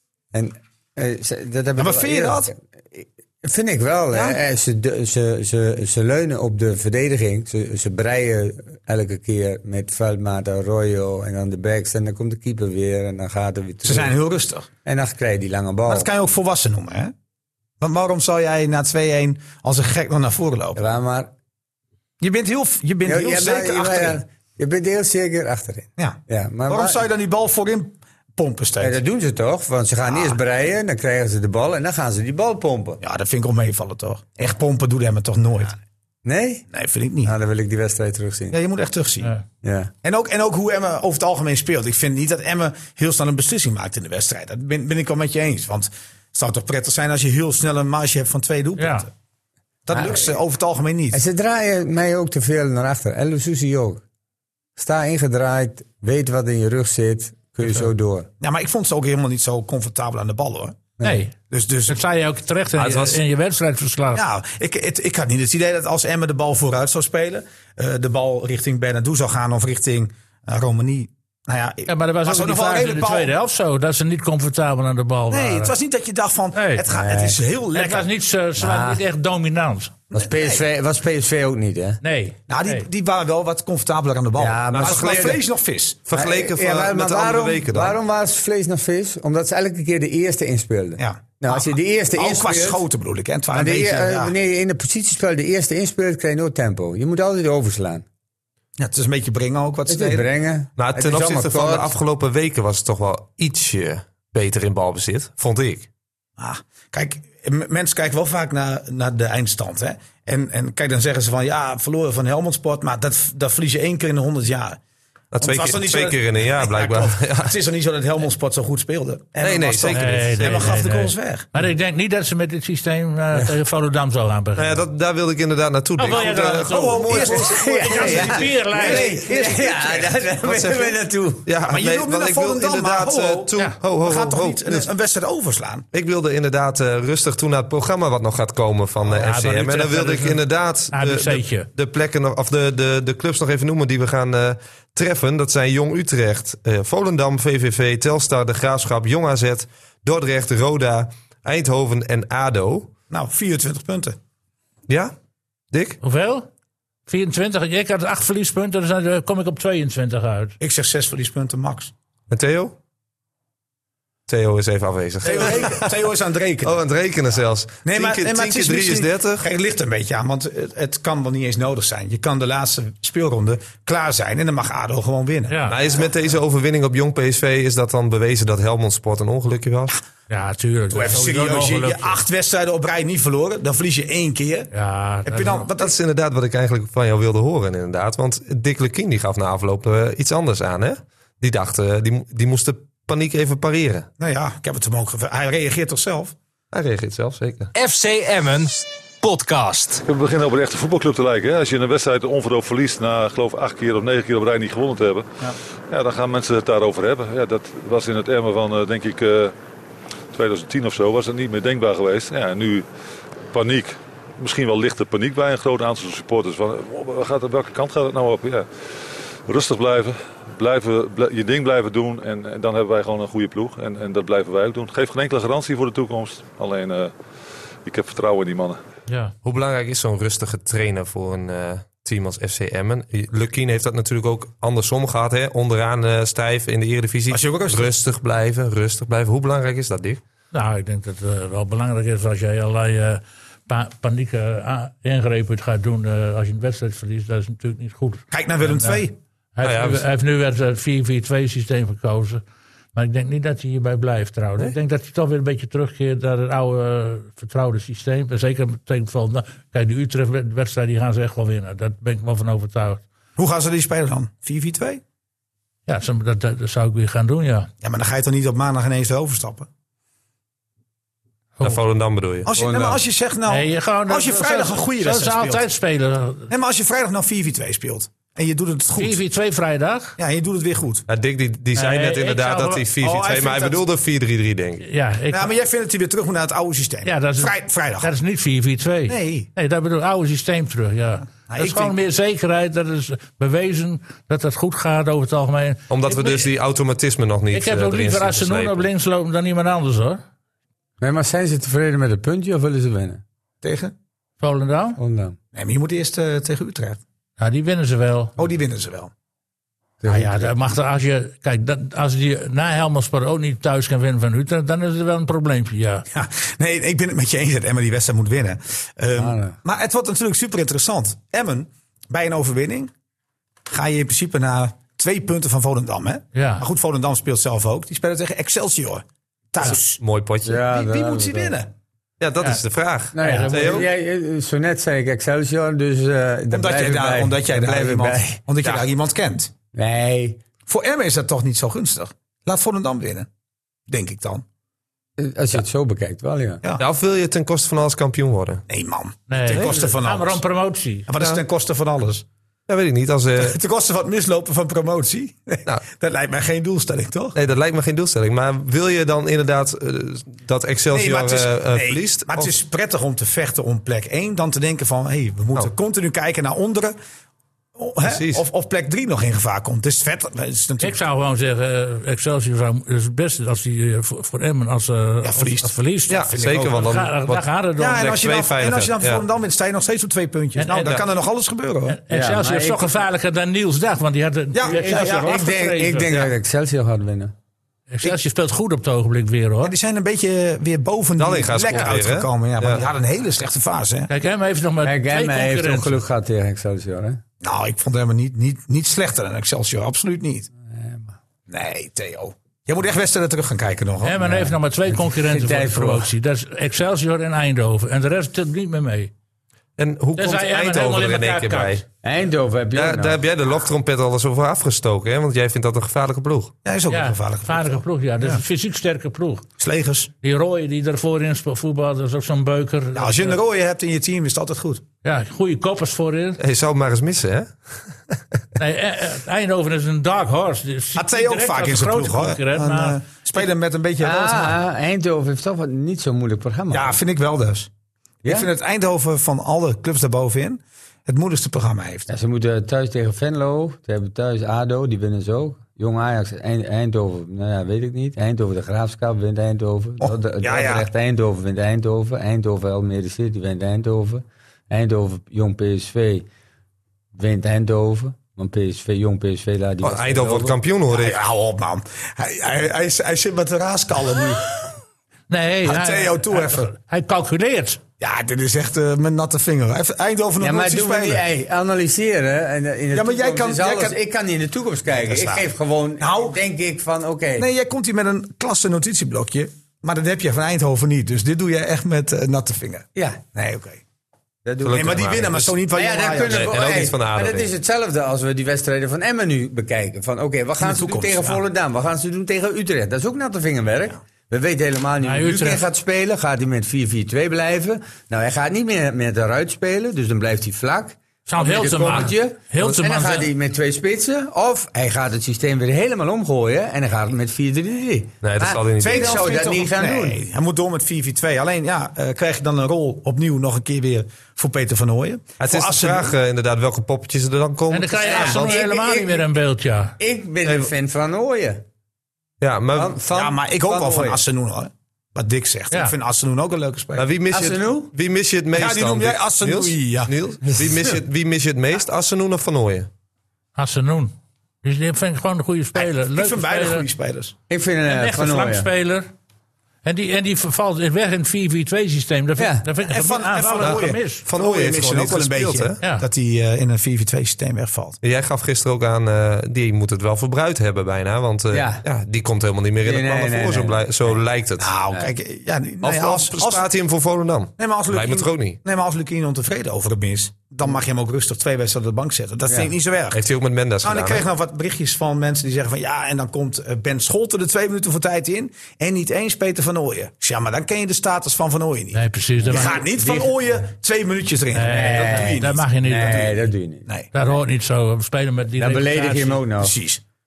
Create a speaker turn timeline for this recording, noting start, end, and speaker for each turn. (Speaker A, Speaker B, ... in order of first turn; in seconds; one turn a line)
Speaker A: 0.3-14.2
Speaker B: 1.8-2.5
Speaker B: 13.8-14.7
Speaker A: 14.8-16.1
Speaker B: 15.9-17.1
Speaker B: 17.8-20.8
Speaker A: 20.8-21.3
Speaker B: 22.2-24.2
Speaker A: 23.0-27.0
Speaker B: 26.0-29.0
Speaker A: 28.8-33.0
Speaker B: 30.1-30.4
Speaker B: 33.0-35.8
Speaker A: 36.2-36.7
Speaker B: 36.7-37.3
Speaker A: 37.2-38.6
Speaker B: 38.5-39.3
Speaker A: 39.6-39.9
Speaker B: 40.0-49.1
Speaker C: 48.8-49.1
Speaker B: 49.9-51.2
Speaker A: 49.9-50.4
Speaker A: 51.1-54.0
Speaker A: 54.8-58.3
Speaker B: 58.4-60.8
Speaker A: 61.0-61.2
Speaker C: 61.0-61.3
Speaker B: 61.5-62.0
Speaker C: 61.9-64.2
Speaker D: 62.8-63.2
Speaker B: 64.1-73.3
Speaker C: 71.9-75.8
Speaker B: 75.3-78.1
Speaker C: 76.5-76.8
Speaker A: 76.9-77.4
Speaker C: 77.7-79.9
Speaker A: 78.6-79.0
Speaker B: 80.1-80.6
Speaker A: 80.1-82.0
Speaker C: 82.0-82.9
Speaker B: 82.5-86.1
Speaker A: 84.4-85.4
Speaker D: 86.1-88.0
Speaker A: 86.1-92.8
Speaker B: 91.0-94.3
Speaker A: 93.5-98.0
Speaker B: 98.8-100.3
Speaker A: 99.9-102.0
Speaker D: 100.8-105.9
Speaker B: 106.4-114.8
Speaker D: 115.3-117.6
Speaker B: 115.4-121.5
Speaker D: 119.4-120.8
Speaker C: 119.9-124.8
Speaker D: 124.6-128.1
Speaker C: 126.0-129.2
Speaker B: 126.1-130.2
Speaker A: 127.3-131.5
Speaker D: 130.5-130.9
Speaker D: 131.5-134.9
Speaker B: 131.7-135.9
Speaker D: 135.9-152.9
Speaker C: 139.0-141.7
Speaker B: 153.1-154.2
Speaker D: 154.9-155.1
Speaker D: 155.7-156.0
Speaker C: 156.0-156.5
Speaker C: 157.1-160.6
Speaker B: 160.6-161.9
Speaker D: 162.3-162.8
Speaker D: 164.3-166.0
Speaker B: 165.2-166.8
Speaker D: 166.6-169.5
Speaker B: 167.8-175.6
Speaker C: 175.5-175.8
Speaker D: 175.7-180.0
Speaker C: 180.3-182.2
Speaker B: 180.9-184.7
Speaker C: 184.7-185.7
Speaker B: 185.2-185.9
Speaker D: 185.8-194.1
Speaker B: 194.2-196.3
Speaker D: 196.7-197.7
Speaker E: 197.7-200.0
Speaker F: 200.1-209.5
Speaker F: 210.3-212.8
Speaker F: 213.5-218.7
Speaker F: 219.5-227.1
Speaker F: 227.8-228.8
Speaker C: 229.1-229.3
Speaker D: 229.4-240.2
Speaker B: 237.3-237.9
Speaker C: 240.5-249.0
Speaker B: 248.3-249.2
Speaker C: 249.6-252.4
Speaker D: 249.6-250.1
Speaker C: 252.9-263.0
Speaker B: 263.4-265.0
Speaker C: 265.9-267.7
Speaker B: 267.8-269.7
Speaker D: 271.6-272.5
Speaker B: 272.5-275.6
Speaker A: 272.5-273.0
Speaker C: 273.5-276.5
Speaker B: 276.5-279.2
Speaker C: 278.9-280.2
Speaker B: 280.2-281.1
Speaker D: 281.1-284.9
Speaker C: 281.8-282.9
Speaker B: 283.0-283.8
Speaker C: 284.8-285.5
Speaker B: 285.3-288.1
Speaker C: 287.1-296.5
Speaker B: 289.1-289.5
Speaker B: 291.5-292.0
Speaker D: 295.9-298.9
Speaker C: 297.5-300.2
Speaker A: 301.0-303.2
Speaker B: 303.6-303.9
Speaker C: 304.4-305.0
Speaker A: 305.0-305.4
Speaker B: 305.5-307.0
Speaker C: 307.4-308.3
Speaker B: 308.4-309.1
Speaker A: 310.0-310.6
Speaker C: 310.1-316.1
Speaker B: 316.1-322.9
Speaker A: 319.2-319.6
Speaker B: 323.7-330.0
Speaker C: 326.3-326.7
Speaker D: 329.6-330.6
Speaker A: 330.4-331.6
Speaker B: 330.6-331.7
Speaker D: 332.2-333.9
Speaker A: 333.1-338.4
Speaker C: 333.2-333.9
Speaker B: 336.5-339.5
Speaker A: 339.7-340.4
Speaker B: 340.7-343.3
Speaker B: 343.9-344.4
Speaker A: 345.2-346.6
Speaker D: 346.8-348.6
Speaker B: 348.7-350.4
Speaker C: 349.3-351.1
Speaker B: 351.1-352.3
Speaker D: 352.7-353.6
Speaker B: 353.4-357.4
Speaker D: 357.4-362.5
Speaker B: 360.9-366.9
Speaker B: 367.8-371.0
Speaker D: 368.0-368.4
Speaker C: 370.8-378.1
Speaker B: 375.2-376.9
Speaker D: 376.1-379.2
Speaker B: 377.8-382.0
Speaker C: 380.6-381.0
Speaker C: 381.9-386.3
Speaker A: 382.1-383.0
Speaker B: 384.5-385.4
Speaker A: 384.7-387.3
Speaker C: 387.9-389.8
Speaker B: 389.6-394.1
Speaker D: 391.2-392.9
Speaker C: 391.7-391.9
Speaker C: 394.1-396.0
Speaker A: 394.8-397.2
Speaker B: 397.4-400.5
Speaker A: 400.7-401.1
Speaker B: 401.5-404.3
Speaker C: 404.0-409.1
Speaker A: 404.2-406.1
Speaker D: 409.8-411.8
Speaker C: 410.2-411.8
Speaker A: 412.0-413.2
Speaker D: 412.8-416.5
Speaker B: 416.6-418.4
Speaker C: 416.9-419.4
Speaker B: 419.6-420.1
Speaker C: 420.2-423.4
Speaker B: 422.9-424.8
Speaker C: 425.0-426.4
Speaker D: 426.4-428.2
Speaker C: 428.6-433.4
Speaker B: 431.0-434.6
Speaker A: 434.0-437.0
Speaker B: 436.7-437.7
Speaker A: 438.2-438.5
Speaker B: 438.3-442.1
Speaker A: 442.1-456.3
Speaker B: 450.0-450.9
Speaker A: 457.1-460.6
Speaker D: 459.8-461.2
Speaker B: 460.9-464.7
Speaker C: 465.3-467.8
Speaker B: 465.6-466.7
Speaker B: 468.0-471.2
Speaker A: 470.4-477.5
Speaker B: 472.9-474.0
Speaker B: 474.9-475.5
Speaker B: 476.0-476.4
Speaker B: 477.4-483.8
Speaker A: 482.9-483.2
Speaker A: 484.4-510.2
Speaker D: 484.6-485.6
Speaker B: 484.7-486.6
Speaker D: 486.2-487.5
Speaker B: 490.6-491.4
Speaker C: 495.0-495.6
Speaker C: 501.3-503.3
Speaker D: 508.2-509.2
Speaker B: 508.8-516.2
Speaker D: 515.4-518.6
Speaker C: 517.7-520.0
Speaker A: 518.0-519.3
Speaker A: 520.0-521.6
Speaker D: 522.4-523.0
Speaker A: 522.8-524.2
Speaker B: 523.1-527.1
Speaker D: 527.0-532.9
Speaker A: 527.3-527.9
Speaker B: 528.5-530.1
Speaker A: 530.5-530.9
Speaker C: 533.6-536.9
Speaker B: 535.8-537.3
Speaker A: 537.5-538.7
Speaker C: 537.9-539.1
Speaker C: 539.8-544.2
Speaker A: 542.4-542.7
Speaker B: 542.9-548.0
Speaker D: 543.6-545.8
Speaker D: 548.0-554.7
Speaker A: 551.5-551.8
Speaker A: 552.8-554.2
Speaker B: 554.6-556.6
Speaker D: 555.8-558.6
Speaker B: 557.6-563.2
Speaker A: 562.5-562.7
Speaker D: 563.1-564.3
Speaker B: 563.8-576.3
Speaker C: 571.9-573.3
Speaker C: 574.5-576.5
Speaker A: 574.6-576.9
Speaker C: 577.1-579.5
Speaker A: 578.6-579.8
Speaker B: 579.6-580.0